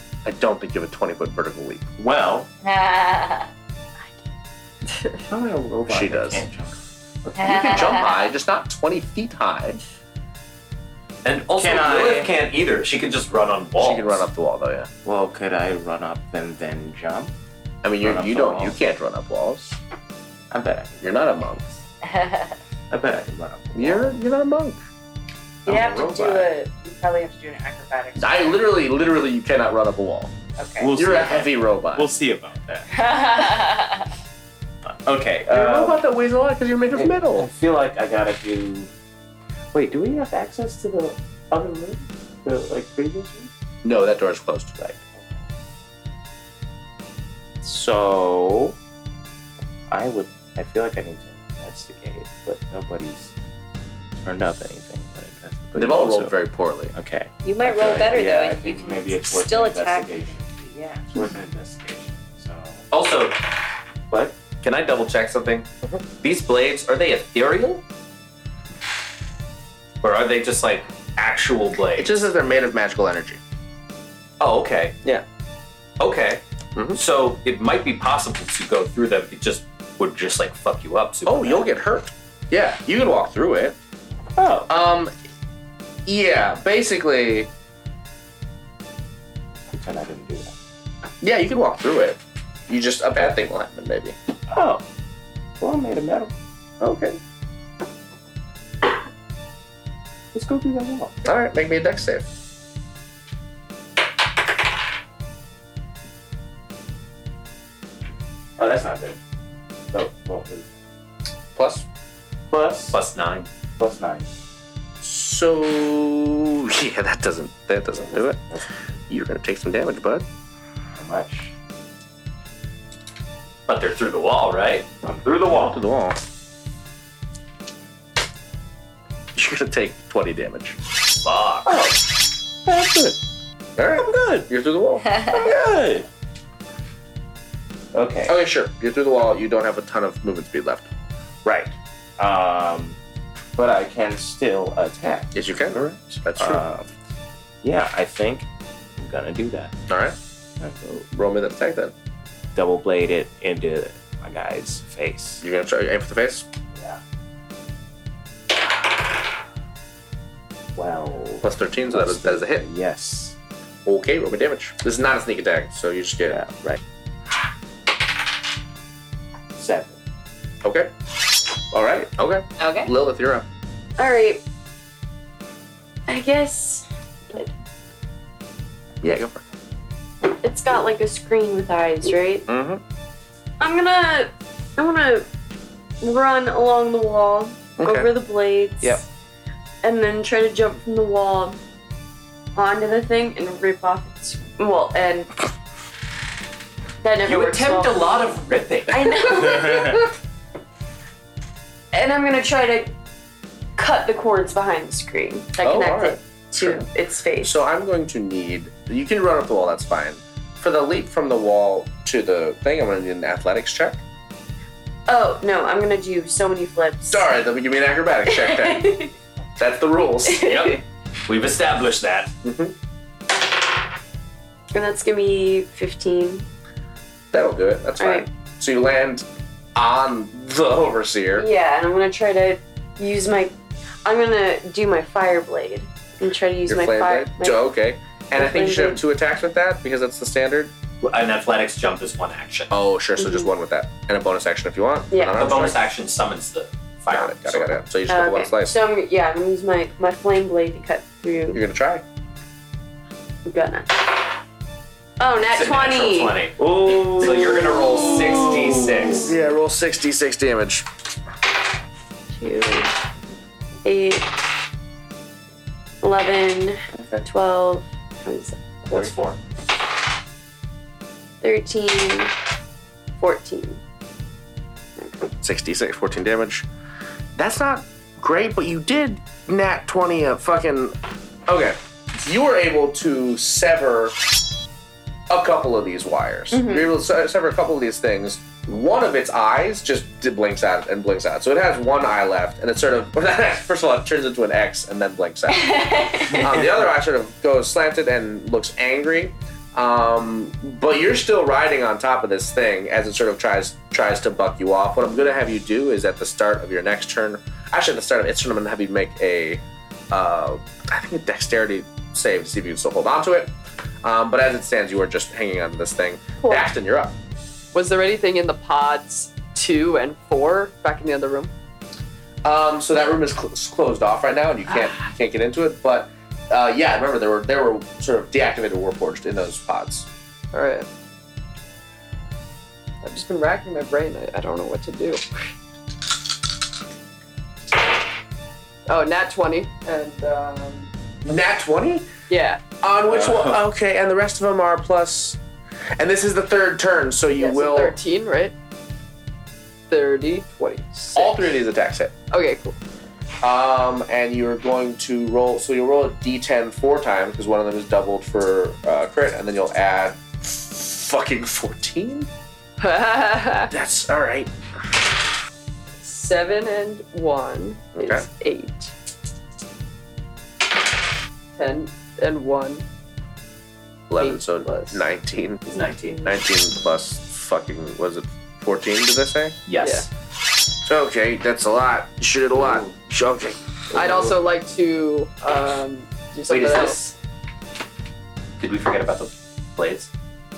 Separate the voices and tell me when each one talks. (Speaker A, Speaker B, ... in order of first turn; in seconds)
Speaker A: 0.2-1.8, 5.9-6.4, 7.3-9.8, 13.8-14.9, 17.8-19.8, 21.0-21.6, 23.7-24.8, 28.1-30.3, 30.9-32.1, 35.5-37.5, 43.8-44.8, 55.7-56.9, 72.0-73.4, 81.2-83.7, 84.7-85.1, 86.0-87.5, 91.2-94.2, 96.8-97.2, 101.2-102.3, 111.5-111.8, 115.0-118.4, 119.1-120.2, 125.5-126.2, 129.3-130.8, 133.8-135.4, 138.3-140.9, 145.3-146.6, 149.9-150.2, 151.1-151.9, 155.4-156.4, 161.4-162.7, 163.8-166.4, 170.6-170.9, 171.7-173.4, 179.0-179.4, 182.5-182.8, 187.8-188.1, 205.6-206.9, 207.4-214.0, 217.1-219.1, 219.6-220.5, 222.4-222.7, 227.3-231.5, 236.7-240.7, 242.7-245.8, 247.1-248.8, 251.5-252.0, 259.2-260.9, 266.9-267.2, 275.4-276.6, 277.4-280.9, 281.5-284.1, 285.3-317.1, 322.4-330.1, 341.2-342.1, 342.8-345.4, 346.0-347.9, 351.1-352.1, 353.4-362.3, 363.7-364.5, 368.0-368.2, 374.1-375.6, 376.2-379.6, 380.8-384.3
Speaker B: 2.0-2.5, 5.3-7.9, 11.6-12.3, 15.0-17.3, 18.0-18.8, 20.5-21.6, 22.9-24.2, 25.6-26.5, 30.8-33.0, 34.9-36.0, 36.9-38.9, 39.7-43.5, 44.8-45.4, 47.6-48.8, 49.9-53.3, 54.1-56.4, 56.9-62.9, 84.4-84.7, 89.7-90.5, 94.5-94.8, 95.6-96.3, 100.3-101.1, 108.6-109.2, 109.9-110.7, 112.5-113.0, 113.8-114.3, 118.0-118.7, 121.0-121.5, 125.0-125.4, 131.7-132.0, 132.7-133.2, 133.9-134.4, 135.2-136.1, 137.9-138.3, 141.4-143.0, 143.6-146.9, 147.6-149.7, 150.6-151.1, 152.5-155.4, 160.8-163.3, 166.3-166.8, 169.5-170.0, 256.6-259.3, 343.1-343.5
Speaker C: 2.6-3.5, 7.5-7.9, 22.1-22.5, 25.6-28.6, 30.6-30.9, 32.9-34.0, 57.4-61.0, 172.6-172.9
Speaker D: 11.2-14.2, 62.9-63.4, 64.1-65.7, 66.2-67.8, 70.0-72.2, 74.4-75.0, 76.0-81.7, 112.9-113.5, 123.7-125.8, 131.2-131.7, 197.2-199.4, 220.4-222.3, 241.0-242.7, 245.4-247.8, 255.4-259.3, 268.9-269.4, 375.6-376.3, 379.7-380.1, 386.5-387.1, 388.6-390.1
Speaker E: 174.0-174.4, 176.1-177.5, 180.2-182.5, 183.6-185.2, 186.0-189.0, 189.8-191.6, 192.5-195.4, 197.0-200.1, 201.9-202.9, 203.8-207.6, 215.1-217.3, 218.3-219.1, 220.3-220.8, 224.7-226.4, 228.0-228.3, 231.3-237.6, 238.3-239.0, 243.2-243.5, 245.1-245.6, 248.1-251.6, 253.4-253.9, 255.2-256.4, 262.3-262.9, 263.8-264.2, 266.0-269.1, 271.4-272.3, 273.2-273.8, 286.5-286.8, 295.5-296.6, 316.4-316.7
Speaker F: 317.7-321.5, 330.5-330.9, 333.0-335.2, 338.9-340.9, 342.3-342.6, 347.4-348.5, 349.9-351.4, 352.3-352.8, 362.8-363.7, 366.0-368.9, 371.5-372.8, 374.2-375.0, 379.8-380.1, 383.9-387.0